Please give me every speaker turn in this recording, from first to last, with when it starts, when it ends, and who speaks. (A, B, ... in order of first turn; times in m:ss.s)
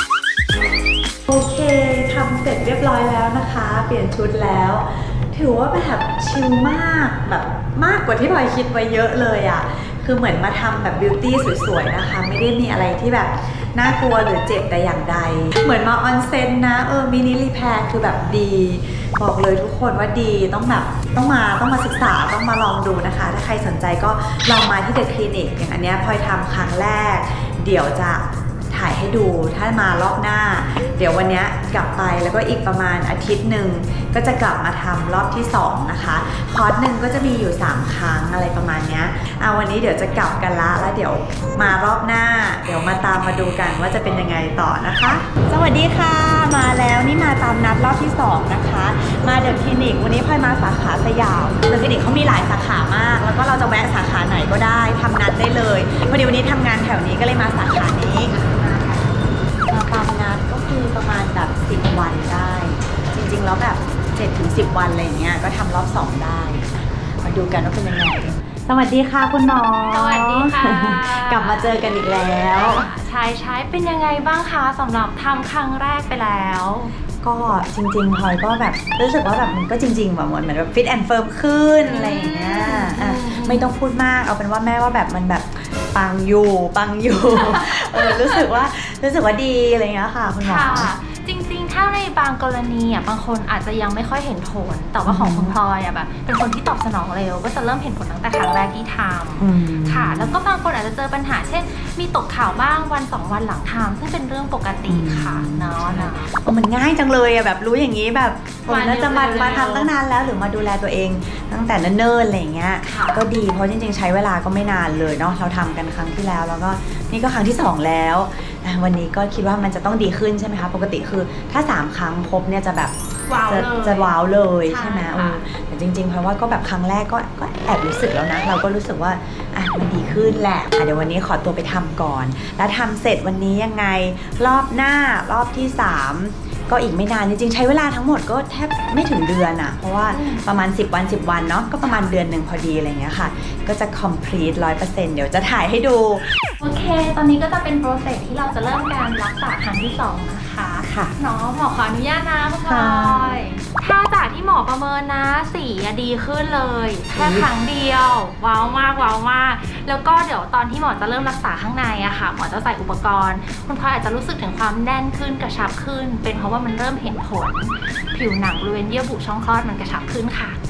0:01.3-1:12.9 A
1:09.9-1:11.9 B
1:12.5-1:16.9 B
1:17.2-1:30.9 A
1:21.8-1:23.7 B
1:27.4-1:28.4 B
1:30.4-1:46.4 B
1:35.0-1:35.6 A
1:39.4-1:40.3 A
1:44.9-2:02.9 A
1:48.6-1:49.9 B
1:52.8-1:53.2 B
2:03.3-2:05.4 B
2:03.5-2:26.4 A
2:20.1-2:20.5 B
2:26.6-2:50.6 B
2:30.8-2:31.2 A
2:32.6-2:33.4 A
2:37.2-2:37.5 A